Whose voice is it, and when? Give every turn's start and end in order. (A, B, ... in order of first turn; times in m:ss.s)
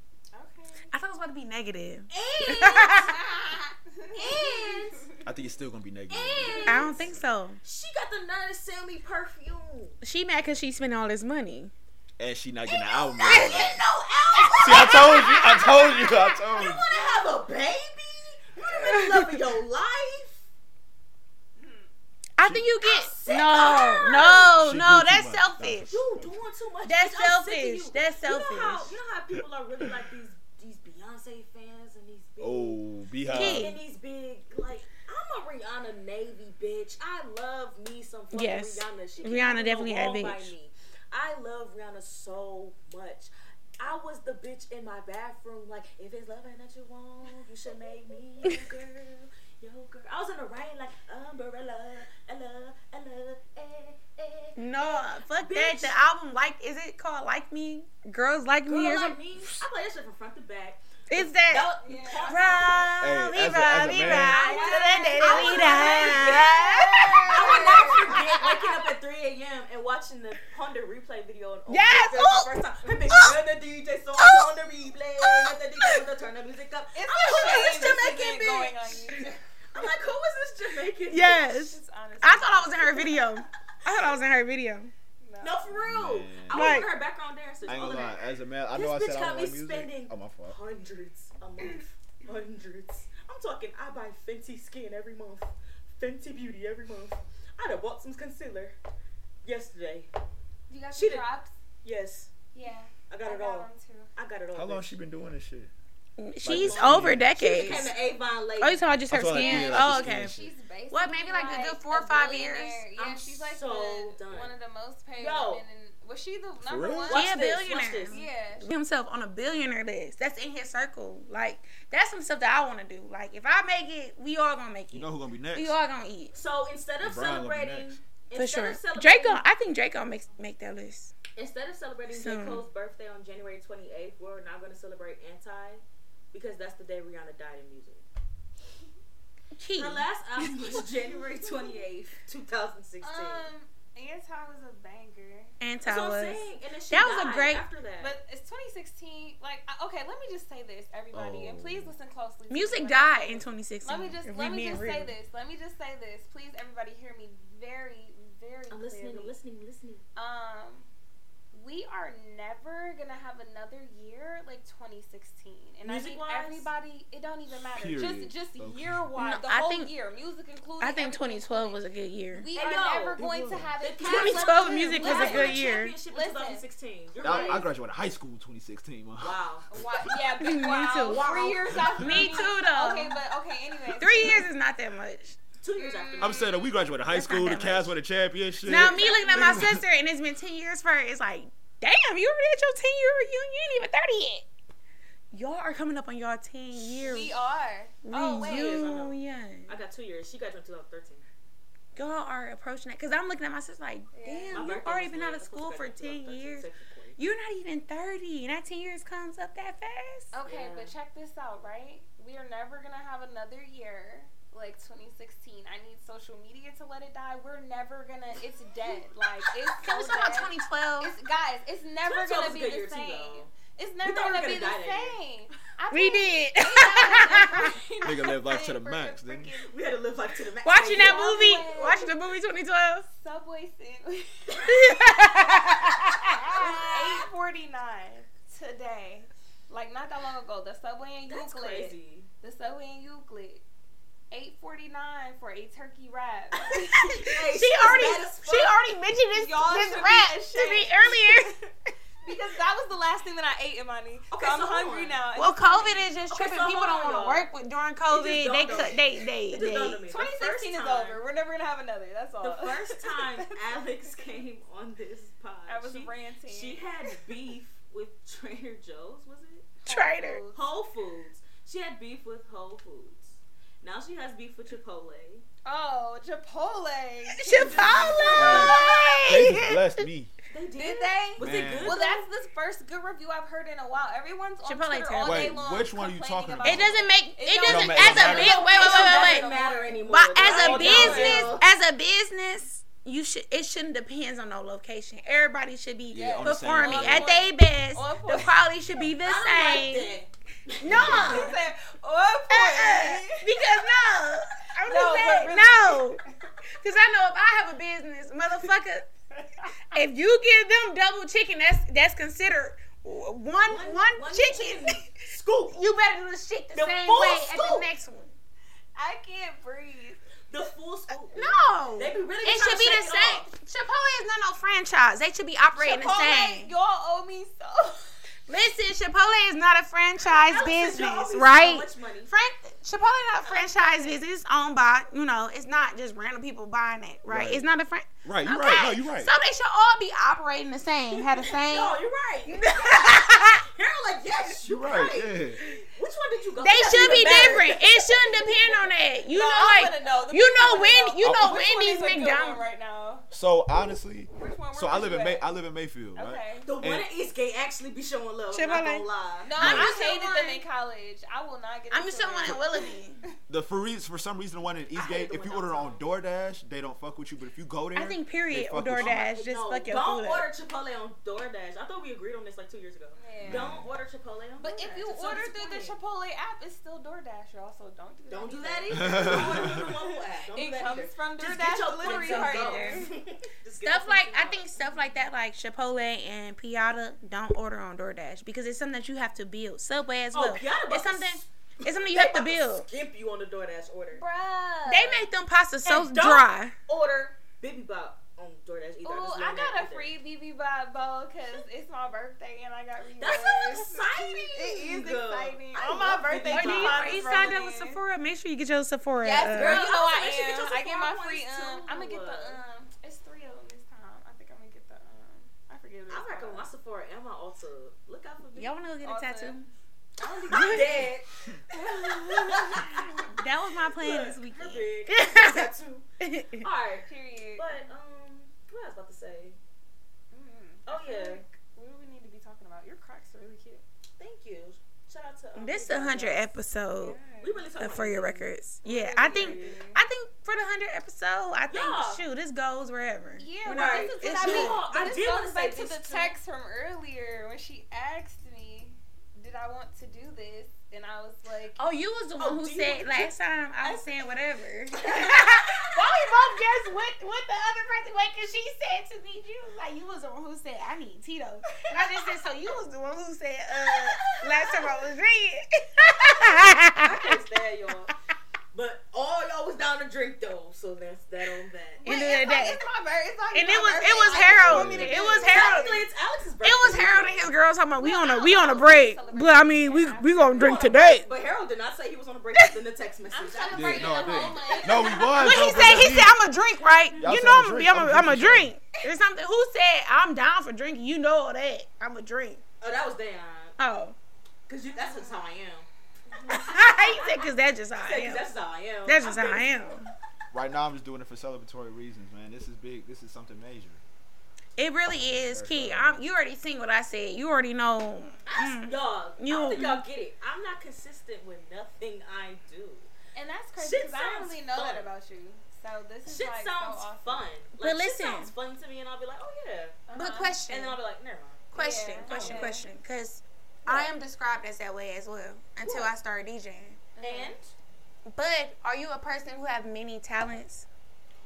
0:00.3-0:00.9 A
0:00.9-0:03.1 B
0:02.1-0:03.2 C
0:02.8-0:05.2 A
0:04.1-0:05.1 C
0:05.2-0:06.9 D
0:06.1-0:07.1 C
0:06.4-0:06.9 A
0:06.6-0:07.6 B
0:07.6-0:10.0 C
0:10.0-0:11.7 B
0:12.2-0:13.8 D
0:12.7-0:15.3 C
0:13.3-0:13.7 B
0:14.4-0:16.4 B
0:14.6-0:16.8 D
0:16.5-0:20.5 C
0:18.8-0:19.1 B
0:21.6-0:21.9 A
0:22.4-0:25.9 B
0:22.4-0:22.7 D
0:22.8-0:24.6 C
0:24.4-0:26.4 D
0:25.9-0:32.8 C
0:26.8-0:28.9 B
0:32.4-0:33.7 D
0:33.3-0:33.8 B
0:33.4-0:56.0 C
0:38.3-0:40.5 B
0:54.6-0:59.6 B
0:58.6-1:02.9 C
1:01.1-1:08.6 B
1:01.8-1:02.9 A
1:03.0-1:04.4 D
1:04.0-1:08.1 A
1:04.1-1:19.0 C
1:11.7-1:12.5 B
1:13.0-1:13.4 B
1:14.2-1:14.5 B
1:15.2-1:16.0 B
1:16.9-1:19.3 A
1:19.7-1:21.4 C
1:21.1-1:24.9 B
1:21.2-1:23.3 A
1:25.2-1:25.9 A
1:25.4-1:38.7 C
1:25.9-1:26.8 D
1:26.5-1:26.9 B
1:27.6-1:30.6 D
1:39.4-1:40.1 C
1:40.7-1:41.5 A
1:40.9-1:41.3 C
1:41.8-1:42.3 C
1:42.5-1:44.1 A
1:43.1-1:44.9 C
1:44.6-1:45.7 D
1:46.2-1:48.0 B
1:46.4-1:47.8 D
1:46.4-1:48.8 C
1:48.6-1:50.3 B
1:49.1-1:50.5 D
1:49.3-1:57.4 A
1:50.9-1:52.8 B
1:53.0-1:54.5 C
1:55.2-1:55.6 C
1:56.6-1:57.2 D
1:57.1-1:58.2 C
1:57.1-2:06.3 B
1:58.1-1:58.7 A
2:04.9-2:05.8 D
2:06.3-2:09.4 C
2:07.0-2:08.0 D
2:08.3-2:11.1 B
2:11.3-2:18.0 C
2:12.1-2:12.6 B
2:19.6-2:20.5 B
2:19.7-2:23.5 C
2:23.0-2:25.5 A
2:25.6-2:27.6 B
2:25.8-2:28.2 C
2:28.0-2:39.3 A
2:31.1-2:31.9 D
2:32.5-2:35.1 B
2:38.7-2:40.0 C
2:40.2-2:40.9 A
2:41.5-2:56.6 A
2:45.8-2:46.7 C
2:47.7-2:49.0 D
2:49.2-2:49.9 B
2:50.8-2:52.5 B
2:52.5-2:53.2 C
2:53.2-2:53.7 D
2:53.8-2:57.7 C
2:54.0-2:55.9 B
2:57.2-2:57.6 A
2:57.2-2:59.8 D
2:59.2-2:59.7 C
2:59.7-3:04.5 A
3:00.4-3:01.3 B
3:01.0-3:02.4 C
3:02.0-3:03.2 B
3:04.0-3:05.4 B
3:05.6-3:06.6 C
3:05.8-3:06.6 A
3:06.2-3:09.8 D
3:07.1-3:07.9 B
3:08.6-3:14.4 B
3:08.7-3:09.7 A
3:15.3-3:17.4 B
3:16.8-3:18.9 A
3:18.0-3:19.7 B
3:18.4-3:21.2 C
3:21.9-3:30.3 B
3:24.1-3:24.7 A
3:24.5-3:27.2 C
3:30.3-3:49.7 A
3:30.4-3:30.9 C
3:39.7-3:41.1 B
3:42.0-3:43.5 C
3:44.0-3:45.2 C
3:45.9-3:47.7 B
3:48.0-3:49.5 D
3:49.6-3:51.5 C
3:50.6-3:53.0 B
3:50.9-3:52.2 A
3:53.1-3:55.2 A
3:54.6-3:57.2 B
3:56.6-4:03.6 A
4:01.3-4:02.3 C
4:04.3-4:07.3 A
4:06.7-4:08.7 C
4:07.2-4:11.6 B
4:09.3-4:11.7 A
4:12.2-4:16.1 A
4:14.3-4:15.2 C
4:15.3-4:20.0 B
4:16.3-4:17.5 C
4:18.1-4:21.2 C
4:20.1-4:23.4 A
4:22.4-4:29.7 C
4:25.7-4:27.1 A
4:29.8-4:30.6 A
4:29.8-4:30.4 B
4:30.5-4:35.4 C
4:35.6-4:39.2 A
4:37.3-4:40.0 B
4:37.5-4:38.4 C
4:38.3-4:40.3 D
4:40.5-4:42.2 C
4:40.8-4:51.5 A
4:41.4-4:42.0 D
4:44.6-4:45.6 B
4:45.2-4:47.0 D
4:46.6-4:49.5 B
4:47.6-4:48.6 D
4:48.2-4:51.7 C
4:50.1-5:00.2 B
4:50.8-4:51.2 D
4:56.1-4:57.3 D
4:56.1-4:58.6 A
4:59.2-5:01.6 C
5:00.8-5:01.6 B
5:00.9-5:03.5 A
5:02.5-5:06.2 B
5:04.8-5:06.5 A
5:06.8-5:09.1 B
5:09.4-5:09.7 A
5:09.9-5:15.1 B
5:13.6-5:15.8 C
5:15.7-5:18.3 B
5:16.7-5:17.9 C
5:19.0-5:20.2 A
5:20.5-5:23.5 C
5:21.3-5:26.7 B
5:25.8-5:28.2 A
5:28.5-5:42.0 B
5:30.2-5:32.3 C
5:33.4-5:34.2 A
5:37.3-5:37.6 D
5:38.2-5:39.3 D
5:41.4-5:48.5 C
5:42.5-5:43.6 B
5:44.7-5:45.6 D
5:46.6-5:52.6 B
5:47.1-5:47.5 A
5:48.6-5:53.3 A
5:51.2-5:51.6 D
5:53.3-5:57.1 D
5:54.3-5:55.4 A
5:56.1-5:56.7 A
5:56.6-5:59.5 C
5:58.5-5:59.0 B
5:59.4-6:03.3 A
5:59.6-6:00.6 B
5:59.6-5:59.9 D
6:01.9-6:03.2 B
6:03.5-6:09.2 D
6:04.9-6:06.0 C
6:07.9-6:10.5 B
6:09.0-6:16.0 C
6:13.2-6:13.7 A
6:13.4-6:13.9 D
6:14.6-6:23.1 A
6:18.3-6:24.7 C
6:19.0-6:19.8 D
6:22.0-6:23.1 B
6:23.8-6:32.9 B
6:30.3-6:34.2 C
6:34.1-6:35.3 A
6:34.9-6:36.7 B
6:35.8-6:40.1 C
6:39.0-6:48.0 A
6:43.2-6:47.4 C
6:46.5-6:49.8 B
6:49.2-6:56.7 A
6:49.4-6:52.6 C
6:56.1-6:58.7 C
6:58.6-6:59.7 B
6:59.0-6:59.6 A
7:00.2-7:01.1 A
7:00.5-7:01.1 B
7:00.5-7:03.3 C
7:01.7-7:03.2 A
7:03.3-7:05.7 B
7:04.0-7:06.1 C
7:06.2-7:06.6 B
7:06.6-7:09.6 C
7:07.0-7:07.8 A
7:10.3-7:13.8 A
7:10.8-7:11.4 C
7:14.2-7:16.5 C
7:15.6-7:17.2 B
7:17.0-7:17.7 A
7:17.4-7:18.5 C
7:17.8-7:24.8 B
7:18.8-7:20.0 A
7:19.1-7:19.8 C
7:21.7-7:22.2 C
7:23.4-7:31.8 A
7:23.6-7:26.4 C
7:31.8-7:47.2 B
7:32.4-7:33.3 C
7:35.0-7:36.3 C
7:46.9-7:48.1 C
7:48.7-7:52.1 C
7:52.0-7:56.0 A
7:52.0-7:52.8 B
7:53.5-7:56.0 B
7:54.1-7:54.5 C
7:54.6-7:55.3 D
7:55.2-7:57.5 C
7:56.6-8:01.3 B
7:58.0-8:01.0 A
8:00.5-8:04.8 C
8:03.3-8:05.8 A
8:03.7-8:06.4 D
8:05.3-8:12.6 B
8:07.2-8:08.7 D
8:12.8-8:13.8 C
8:13.8-8:14.2 B
8:14.7-8:15.9 C
8:16.4-8:17.4 C
8:16.5-8:18.5 B
8:18.0-8:19.8 C
8:19.0-8:20.1 B
8:20.5-8:24.0 D
8:24.8-8:30.0 B
8:25.1-8:26.1 D
8:28.4-8:33.1 C
8:33.3-8:37.4 A
8:33.8-8:35.1 C
8:36.3-8:40.0 C
8:37.8-8:38.5 B
8:40.1-8:40.6 A
8:40.1-8:41.0 B
8:40.7-8:41.6 C
8:41.7-8:47.0 B
8:41.7-8:42.9 A
8:42.2-8:42.8 C
8:43.8-8:44.1 C
8:45.8-8:46.1 C
8:47.2-8:47.5 A
8:47.2-8:47.7 C
8:48.3-8:50.8 B